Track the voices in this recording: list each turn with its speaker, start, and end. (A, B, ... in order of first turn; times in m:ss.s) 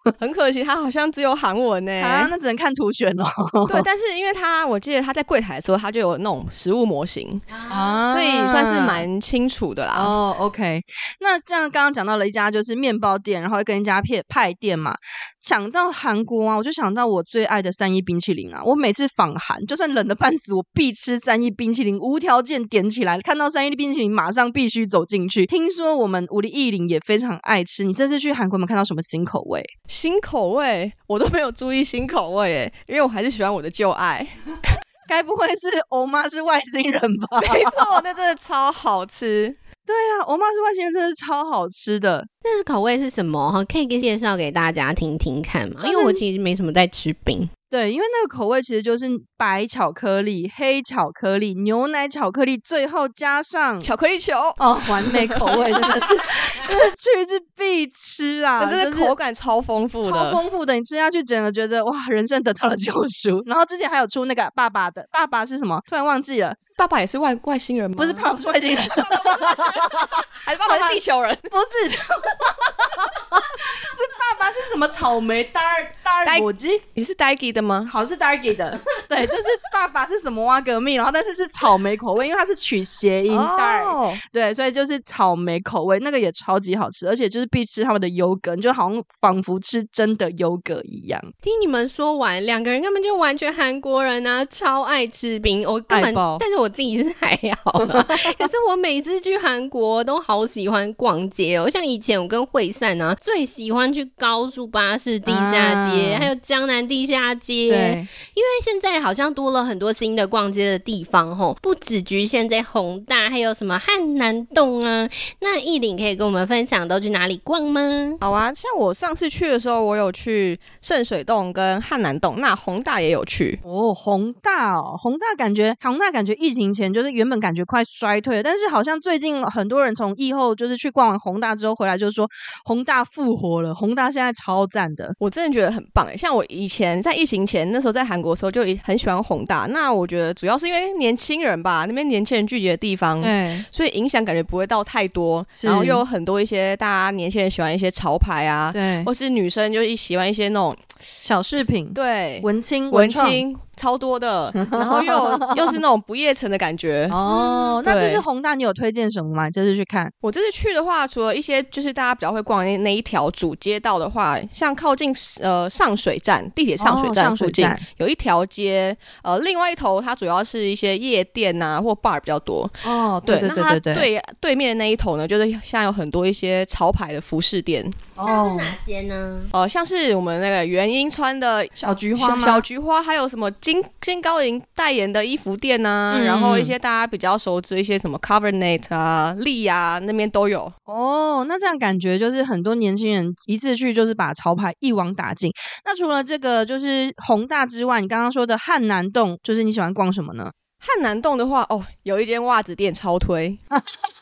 0:00.2-0:02.3 A
0:02.0-0:03.9 B
0:03.7-0:07.4 A
0:07.5-0:08.1 C
0:07.7-0:09.1 B
0:08.1-0:10.2 A
0:09.9-0:29.7 B
0:29.9-0:34.3 A
0:35.1-0:38.0 B
0:37.4-0:39.6 A
0:39.9-0:42.3 B
0:42.4-0:47.5 C
0:45.8-0:46.2 B
0:47.7-0:53.9 B
0:53.8-0:55.8 A
0:54.6-0:59.2 B
0:58.6-1:00.4 A
1:00.0-1:06.6 B
1:06.8-1:08.3 A
1:08.0-1:16.8 B
1:09.0-1:11.5 A
1:16.2-1:17.9 A
1:17.9-1:31.3 B
1:23.3-1:24.2 A
1:31.4-1:58.2 C
1:35.9-1:36.4 B
1:37.8-1:38.1 B
1:45.3-1:46.3 B
1:47.7-1:48.1 B
1:58.2-2:03.6 A
2:03.6-2:15.2 B
2:15.2-2:30.8 A
2:23.2-2:23.7 B
2:25.6-2:26.0 B
2:28.7-2:29.1 B
2:31.2-2:33.4 B
2:31.9-2:37.2 A
2:34.6-2:35.8 B
2:37.1-2:40.1 B
2:37.3-2:37.8 C
2:37.8-2:38.2 A
2:40.2-2:58.0 A
2:46.8-2:47.8 B
2:52.8-2:54.1 B
2:58.2-2:58.8 B
2:58.2-2:59.5 C
2:59.5-3:10.7 A
3:01.8-3:02.6 B
3:06.1-3:06.8 B
3:10.9-3:20.5 B
3:20.8-3:23.6 A